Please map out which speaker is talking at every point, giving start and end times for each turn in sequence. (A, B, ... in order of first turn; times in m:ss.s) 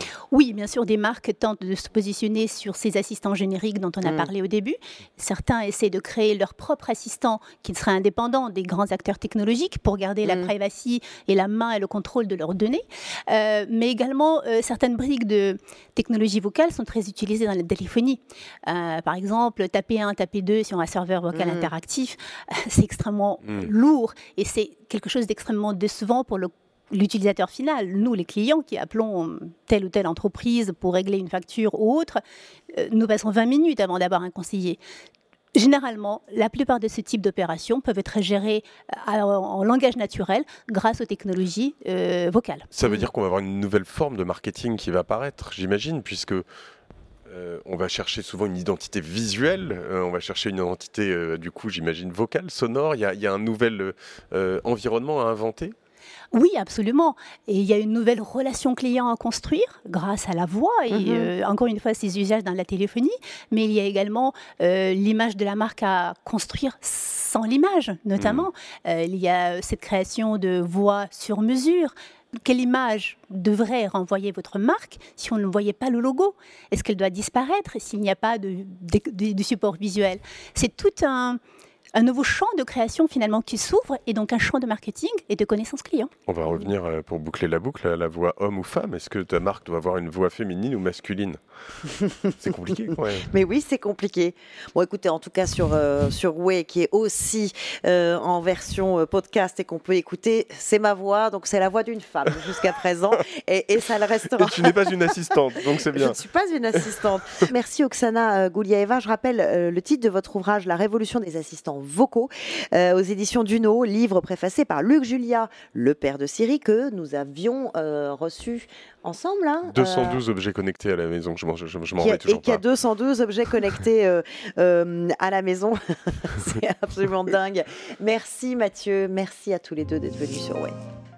0:00.3-0:32.2 A
0:04.0-0:04.3 B
0:10.2-0:10.5 B
0:21.3-0:21.7 B
0:32.7-0:34.8 A
0:35.6-0:42.7 A
0:42.7-0:46.4 C
0:47.3-0:55.7 C
0:56.3-1:21.4 A
1:00.9-1:01.3 B
1:08.2-1:08.5 C
1:22.0-1:26.1 A
1:26.3-1:31.4 C
1:32.3-1:33.3 C
1:33.3-1:44.9 B
1:44.3-1:46.2 C
1:45.9-2:00.2 B
1:59.7-2:02.6 C
2:02.0-2:10.7 B